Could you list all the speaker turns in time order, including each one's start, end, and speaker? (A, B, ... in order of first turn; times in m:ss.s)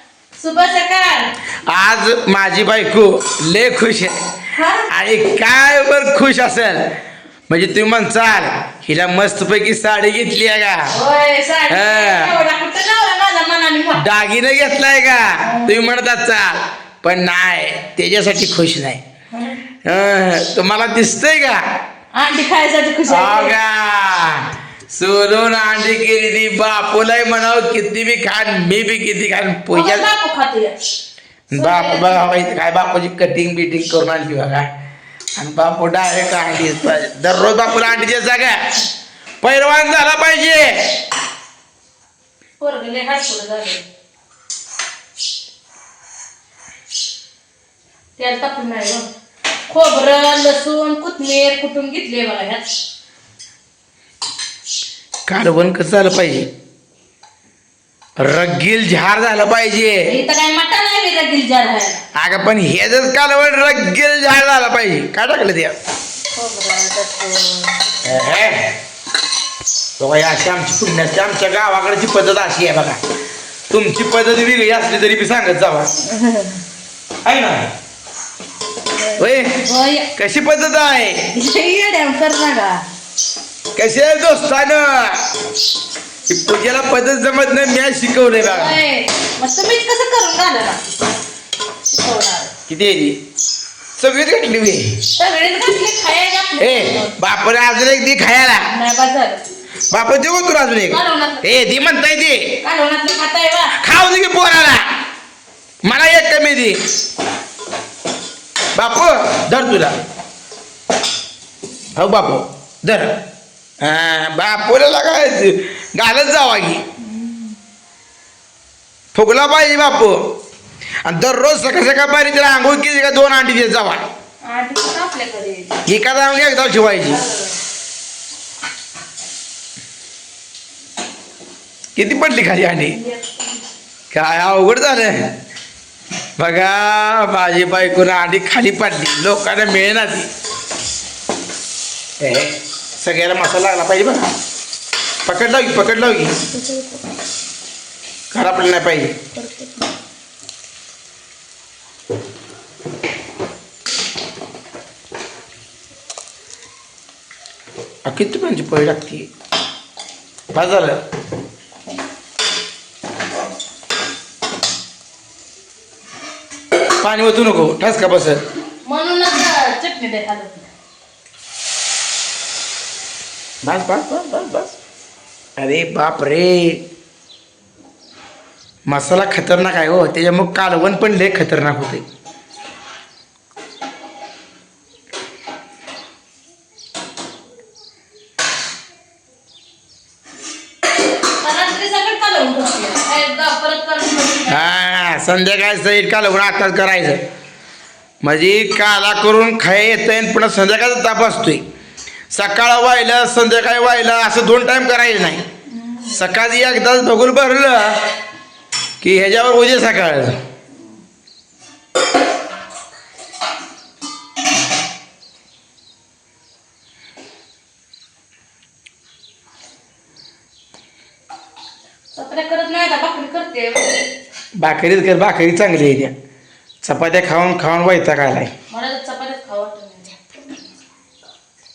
0:00.4-0:01.3 A
0:01.7-0:04.2 B
0:04.5-0:04.9 A
0:04.9-0:06.9 B
0:07.5-0:10.9 B
0:10.9-0:14.1 A
0:11.7-0:12.3 B
0:14.0-0:19.0 B
0:15.4-0:15.8 A
0:19.3-0:19.6 A
0:19.8-0:21.6 B
0:22.1-0:23.5 A
0:23.1-0:30.1 B
0:29.7-0:30.7 A
0:31.5-0:34.7 B
0:31.5-0:32.4 A
0:35.4-0:38.8 B
0:39.4-0:41.0 B
0:42.6-0:43.8 A
0:48.2-0:49.1 A
0:49.7-0:52.7 A
0:55.3-0:56.5 B
0:58.2-1:00.1 B
1:00.0-1:02.0 A
1:02.1-1:05.8 B
1:06.4-1:08.1 A
1:08.0-1:08.7 B
1:10.0-1:13.0 B
1:13.7-1:15.9 B
1:16.0-1:16.6 A
1:17.2-1:17.7 B
1:18.9-1:20.1 A
1:19.2-1:19.6 B
1:20.1-1:21.3 B
1:21.3-1:22.8 A
1:23.7-1:25.2 B
1:26.3-1:28.8 B
1:28.4-1:30.9 A
1:31.9-1:32.5 A
1:32.7-1:33.2 B
1:34.0-1:35.0 B
1:35.1-1:37.1 A
1:36.6-1:38.7 B
1:38.7-1:39.4 A
1:39.9-1:42.6 B
1:40.9-1:41.5 A
1:42.6-1:43.8 A
1:43.8-1:44.8 B
1:45.8-1:46.8 B
1:48.7-1:50.0 B
1:51.9-1:53.2 B
1:53.8-1:56.8 B
1:57.0-1:57.6 A
1:59.1-2:00.2 B
2:01.0-2:04.1 B
2:04.4-2:05.8 A
2:05.8-2:07.2 B
2:07.1-2:07.6 A
2:12.0-2:13.0 B
2:12.9-2:13.4 A
2:14.1-2:15.3 B
2:16.4-2:20.3 B
2:22.2-2:24.3 B
2:25.2-2:26.4 B
2:26.5-2:27.0 A
2:28.3-2:29.1 B
2:29.3-2:29.9 A
2:38.0-2:39.3 B
2:40.5-2:41.0 B
2:47.0-2:48.4 B
2:48.8-2:50.7 A
2:53.6-2:54.8 B
2:55.6-2:56.8 B
2:58.9-3:02.0 B
3:11.4-3:14.6 A
3:14.5-3:17.2 B
3:18.2-3:21.6 B
3:22.3-3:25.4 B
3:25.7-3:26.2 A
3:26.1-3:28.0 B
3:29.0-3:30.3 B
3:42.1-3:44.0 A
3:44.6-3:46.1 B
3:46.8-3:48.5 B
3:48.7-3:50.2 A